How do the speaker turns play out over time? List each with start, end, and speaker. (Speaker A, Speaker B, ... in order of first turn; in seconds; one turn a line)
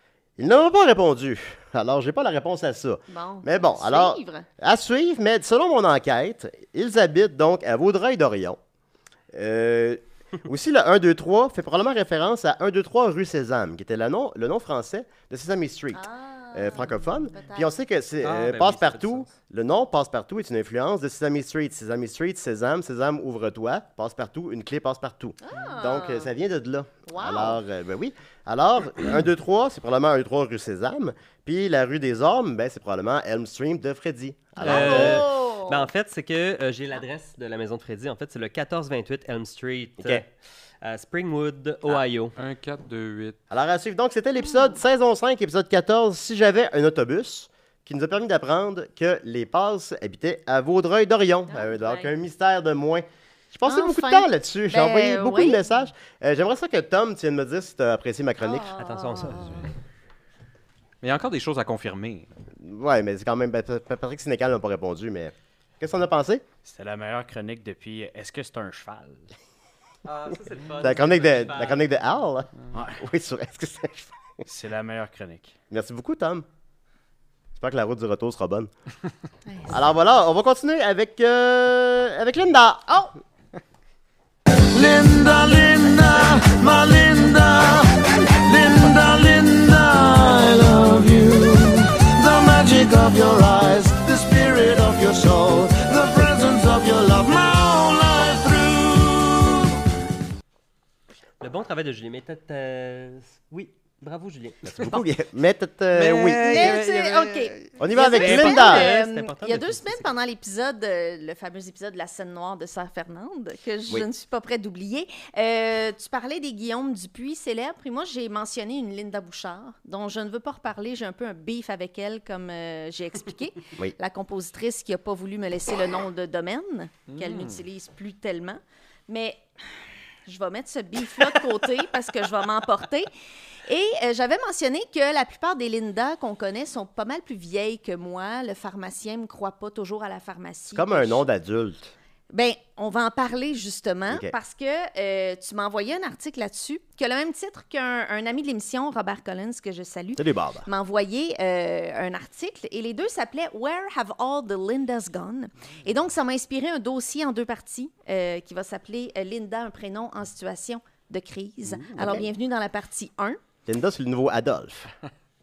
Speaker A: 0.4-8.6
Speaker B: 3.1-4.5
Speaker A: 9.3-35.3
Speaker B: 15.9-17.7
Speaker C: 18.2-19.3
Speaker B: 25.4-26.3
Speaker B: 27.1-27.6
Speaker B: 34.6-35.9
Speaker C: 34.6-40.3
Speaker A: 40.0-40.2
Speaker C: 40.8-42.4
Speaker D: 42.4-43.4
Speaker A: 43.5-58.7
Speaker B: 44.5-44.8
Speaker B: 51.5-52.1
Speaker B: 53.6-55.6
Speaker B: 58.4-59.7
Speaker C: 58.8-59.7
Speaker D: 61.0-62.3
Speaker A: 62.6-66.4
Speaker E: 66.6-69.3
Speaker C: 70.0-71.9
Speaker A: 70.8-74.1
Speaker E: 72.7-73.0
Speaker E: 74.4-75.5
Speaker A: 75.7-76.5
Speaker A: 77.5-78.7
Speaker B: 79.5-79.8
Speaker A: 79.7-83.0
Speaker F: 84.7-99.7
Speaker C: 101.4-104.8
Speaker A: 104.6-106.8
Speaker D: 105.9-107.7
Speaker B: 106.4-129.4
Speaker A: 107.8-109.0
Speaker C: 108.0-110.1
Speaker D: 127.1-127.6
Speaker B: 130.2-133.1
Speaker B: 133.7-141.2
Speaker A: 140.7-141.9
Speaker B: 142.3-163.4
Speaker A: 144.1-144.3
Speaker A: 150.2-150.7
Speaker A: 161.9-162.3
Speaker A: 163.7-164.9